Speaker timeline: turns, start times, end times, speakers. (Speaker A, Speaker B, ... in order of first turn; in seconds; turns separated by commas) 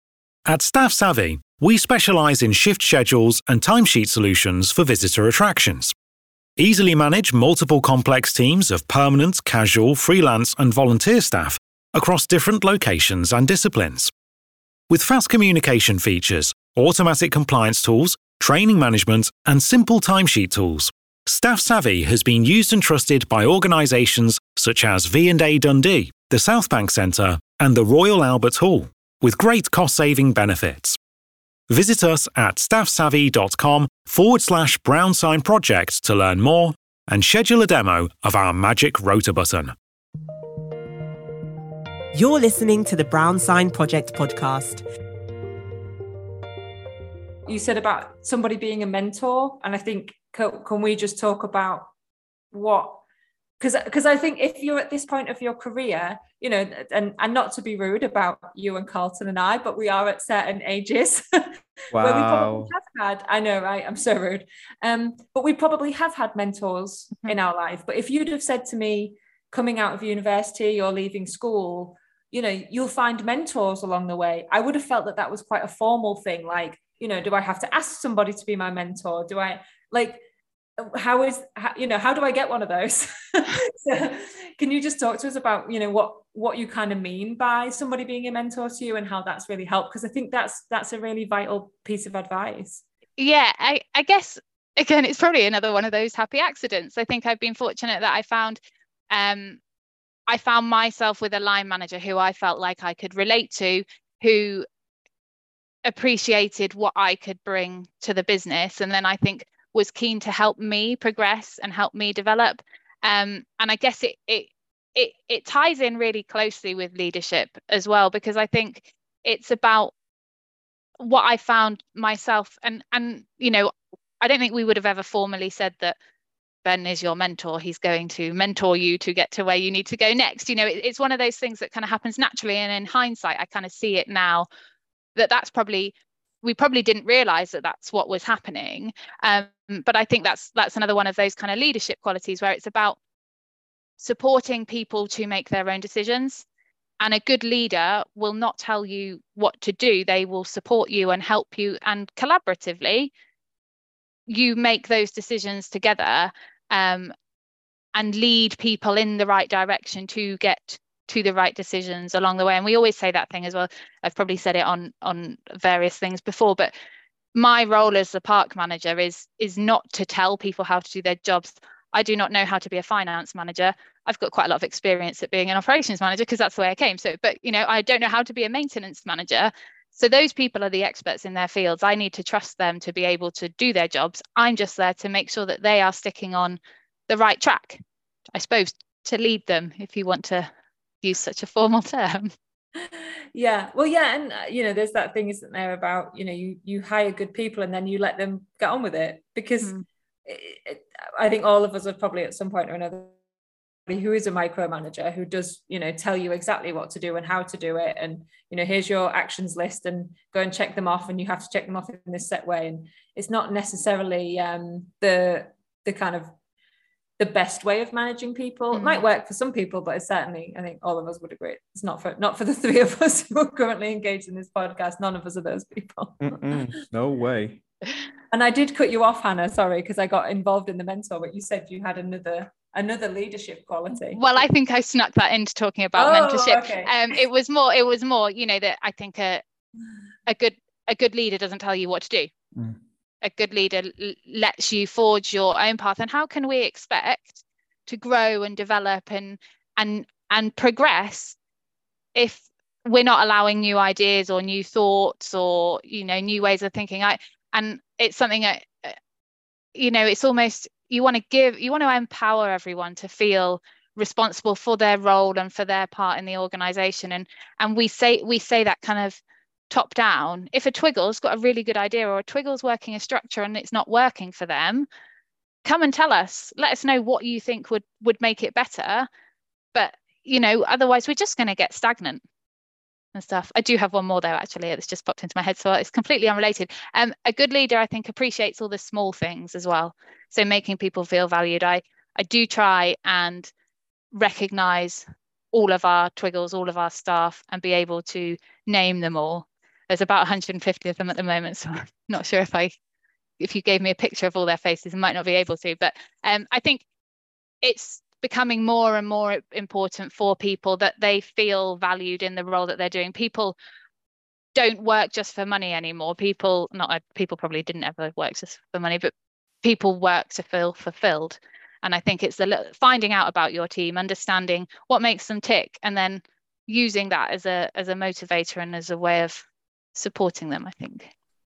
Speaker A: 0.5-5.9, Speaker A: 6.6-14.1, Speaker A: 14.9-31.0, Speaker A: 31.7-39.8, Speaker B: 42.1-44.8, Speaker C: 47.5-51.9, Speaker C: 52.5-53.0, Speaker C: 53.6-80.3, Speaker D: 61.9-62.7, Speaker C: 80.8-92.8, Speaker E: 93.2-98.6, Speaker E: 99.1-99.6, Speaker E: 100.3-104.7, Speaker E: 105.8-119.9, Speaker E: 121.0-126.0, Speaker E: 126.6-134.5, Speaker E: 135.2-143.0, Speaker E: 144.0-146.4, Speaker E: 147.0-153.1, Speaker E: 154.3-157.1, Speaker E: 157.9-166.7, Speaker E: 167.3-187.8, Speaker E: 188.3-190.5, Speaker E: 191.0-192.3, Speaker C: 193.3-199.7, Speaker C: 200.3-203.2, Speaker C: 203.9-216.3, Speaker C: 217.2-226.4, Speaker E: 218.7-219.0, Speaker D: 226.2-227.6, Speaker C: 228.3-234.2, Speaker E: 234.1-239.4, Speaker C: 236.0-236.9, Speaker E: 240.3-242.3, Speaker E: 243.2-251.4, Speaker E: 252.2-259.0, Speaker E: 259.8-274.9, Speaker E: 275.6-279.1, Speaker E: 279.7-282.2, Speaker E: 283.1-293.5, Speaker E: 294.1-302.7, Speaker E: 303.4-306.8, Speaker E: 307.6-313.6, Speaker E: 314.6-319.1, Speaker E: 319.6-331.1